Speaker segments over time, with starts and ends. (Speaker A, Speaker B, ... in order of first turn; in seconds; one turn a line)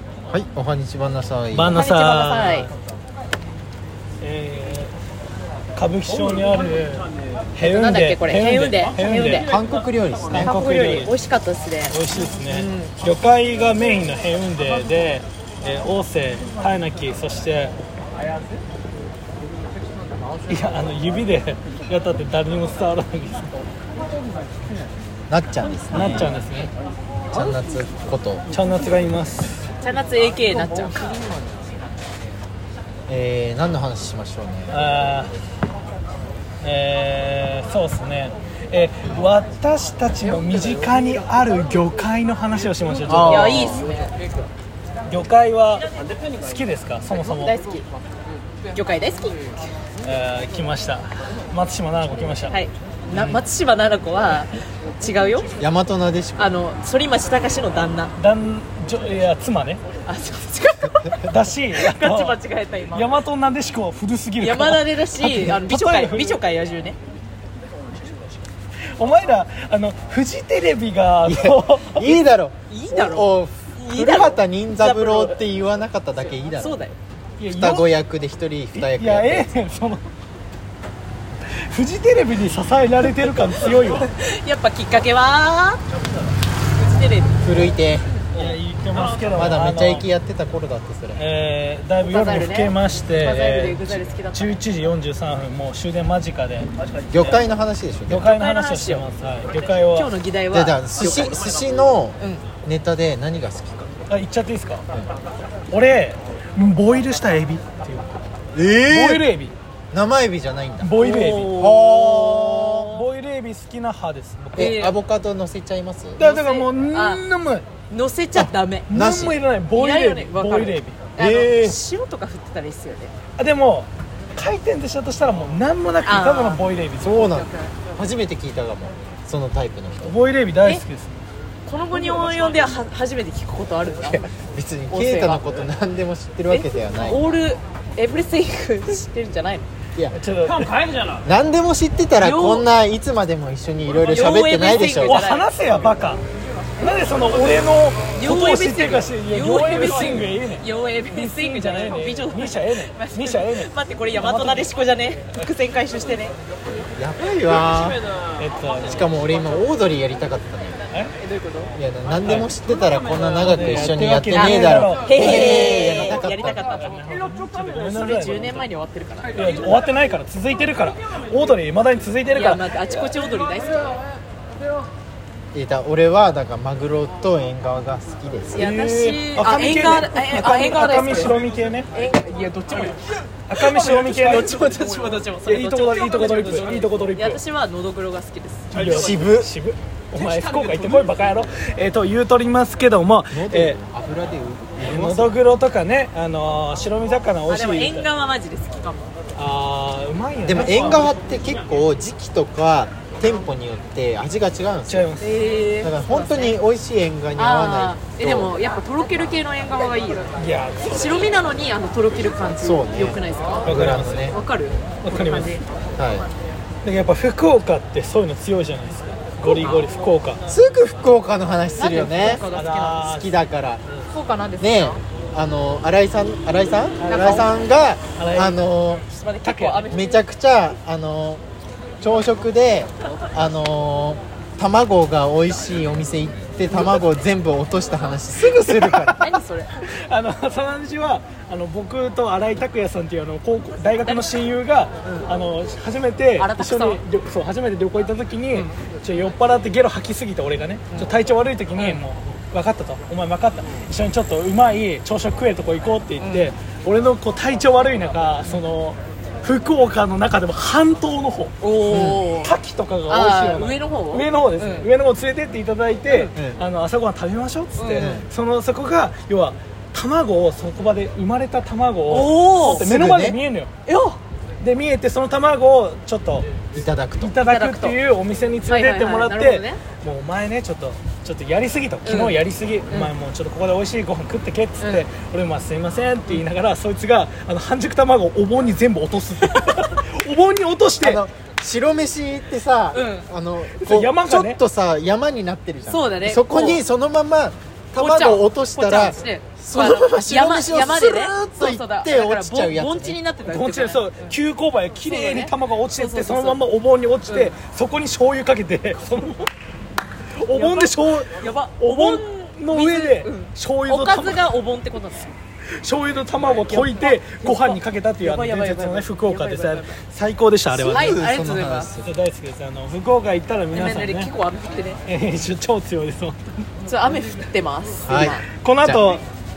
Speaker A: 0.3-1.8
Speaker B: 1.5-2.7
Speaker C: 1.7-2.7
Speaker B: 4.2-4.9
Speaker B: 5.8-9.5
Speaker C: 7.6-9.5
Speaker A: 9.5-10.5
Speaker B: 10.3-11.1
Speaker C: 10.4-12.9
Speaker B: 11.9-17.7
Speaker B: 20.5-23.5
Speaker A: 25.3-26.4
Speaker B: 25.9-26.7
Speaker A: 27.3-28.4
Speaker B: 28.5-29.7
Speaker C: 29.8-31.2
Speaker A: 33.1-34.8
Speaker B: 34.7-35.3
Speaker B: 36.6-43.8
Speaker A: 43.1-43.8
Speaker C: 43.2-44.1
Speaker B: 45.1-45.9
Speaker B: 46.4-47.5
Speaker C: 47.2-47.9
Speaker C: 48.7-49.5
Speaker B: 50.0-52.5
Speaker C: 52.5-55.6
Speaker A: 55.6-56.5
Speaker C: 56.4-58.1
Speaker B: 58.2-59.8
Speaker C: 60.1-63.2
Speaker B: 61.2-62.4
Speaker B: 62.9-66.4
Speaker C: 64.4-67.0
Speaker B: 69.0-72.2
Speaker A: 71.3-76.8
Speaker C: 72.7-75.4
Speaker C: 76.2-77.0
Speaker B: 77.4-77.9
Speaker A: 77.5-79.5
Speaker B: 78.7-80.0
Speaker B: 81.7-84.1
Speaker C: 83.8-85.8
Speaker C: 86.8-87.4
Speaker A: 87.4-88.1
Speaker B: 88.3-90.1
Speaker A: 89.3-91.2
Speaker B: 91.2-96.7
Speaker C: 92.0-94.6
Speaker A: 97.1-98.3
Speaker B: 98.1-100.1
Speaker C: 98.2-99.1
Speaker C: 99.9-101.4
Speaker A: 100.5-103.9
Speaker C: 102.2-102.5
Speaker B: 104.1-104.9
Speaker B: 105.7-108.2
Speaker A: 108.5-109.3
Speaker B: 108.9-109.5
Speaker A: 109.9-112.9
Speaker B: 110.8-114.8
Speaker C: 111.0-113.0
Speaker C: 114.6-115.0
Speaker A: 114.6-116.2
Speaker B: 116.2-117.7
Speaker C: 116.2-117.2
Speaker C: 117.9-118.9
Speaker A: 118.3-119.4
Speaker B: 118.9-121.0
Speaker C: 119.7-123.1
Speaker A: 121.2-121.8
Speaker B: 123.4-127.3
Speaker C: 126.0-126.6
Speaker A: 127.0-130.2
Speaker C: 127.2-127.7
Speaker B: 130.0-131.2
Speaker C: 131.7-134.3
Speaker A: 131.9-132.5
Speaker A: 134.4-137.2
Speaker C: 134.9-135.5
Speaker C: 136.5-139.7
Speaker B: 140.1-140.8
Speaker A: 141.2-145.2
Speaker C: 142.2-142.7
Speaker C: 144.1-145.5
Speaker B: 145.0-146.2
Speaker B: 146.8-154.7
Speaker C: 148.1-156.4
Speaker A: 157.0-158.0
Speaker B: 158.4-159.1
Speaker A: 158.9-160.8
Speaker C: 161.2-161.7
Speaker A: 161.8-166.7
Speaker B: 162.2-162.5
Speaker B: 163.4-166.1
Speaker C: 164.3-169.5
Speaker B: 166.7-168.7
Speaker B: 169.3-172.6
Speaker C: 172.3-173.9
Speaker A: 175.5-178.7
Speaker B: 178.5-181.9
Speaker C: 178.6-181.4
Speaker C: 181.9-183.0
Speaker B: 183.5-184.8
Speaker C: 183.6-188.8
Speaker B: 185.4-187.4
Speaker B: 188.7-193.8
Speaker A: 188.8-189.5
Speaker A: 193.3-195.3
Speaker B: 194.8-198.1
Speaker C: 197.5-199.1
Speaker B: 199.4-201.2
Speaker A: 200.4-205.1
Speaker B: 204.9-205.4
Speaker C: 205.2-206.6
Speaker A: 205.8-208.5
Speaker C: 207.4-210.3
Speaker B: 210.4-211.3
Speaker C: 210.9-215.6
Speaker A: 212.6-214.4
Speaker B: 213.7-214.3
Speaker B: 215.0-215.6
Speaker A: 216.0-216.3
Speaker B: 216.8-220.4
Speaker C: 219.5-219.8
Speaker A: 220.5-222.4
Speaker C: 221.8-223.2
Speaker B: 222.3-224.1
Speaker A: 223.0-223.8
Speaker C: 224.1-225.0
Speaker A: 224.6-229.1
Speaker B: 227.0-227.4
Speaker C: 227.1-227.5
Speaker B: 228.2-228.6
Speaker C: 229.1-230.3
Speaker B: 229.4-229.9
Speaker A: 229.9-231.4
Speaker A: 232.0-239.3
Speaker B: 236.7-237.0
Speaker B: 238.4-239.4
Speaker C: 239.1-239.9
Speaker B: 239.9-261.6
Speaker C: 244.1-244.4
Speaker C: 246.4-247.0
Speaker C: 251.8-252.0
Speaker C: 256.2-256.5
Speaker C: 261.6-262.5
Speaker A: 261.9-262.3
Speaker B: 262.4-273.7
Speaker C: 263.1-264.9
Speaker C: 266.1-266.4
Speaker C: 267.8-268.1
Speaker A: 268.0-268.3
Speaker C: 272.1-272.9
Speaker A: 272.8-273.4
Speaker C: 273.9-274.2
Speaker B: 274.6-276.5
Speaker A: 276.7-277.4
Speaker B: 277.2-291.2
Speaker C: 277.4-278.0
Speaker C: 278.7-279.8
Speaker C: 282.1-283.1
Speaker C: 284.8-285.1
Speaker C: 289.5-289.9
Speaker A: 291.0-303.2
Speaker C: 292.9-293.3
Speaker B: 293.7-294.6
Speaker C: 295.9-296.8
Speaker C: 297.9-304.3
Speaker B: 303.4-309.5
Speaker C: 305.0-306.6
Speaker C: 307.3-307.5
Speaker B: 310.4-314.5
Speaker C: 310.5-315.3
Speaker B: 315.8-321.2
Speaker C: 316.6-320.0
Speaker C: 320.8-321.9
Speaker A: 320.8-322.1
Speaker B: 322.0-324.3
Speaker C: 323.7-325.0
Speaker B: 325.1-326.7
Speaker C: 326.9-328.5
Speaker A: 328.1-329.1
Speaker B: 328.5-329.2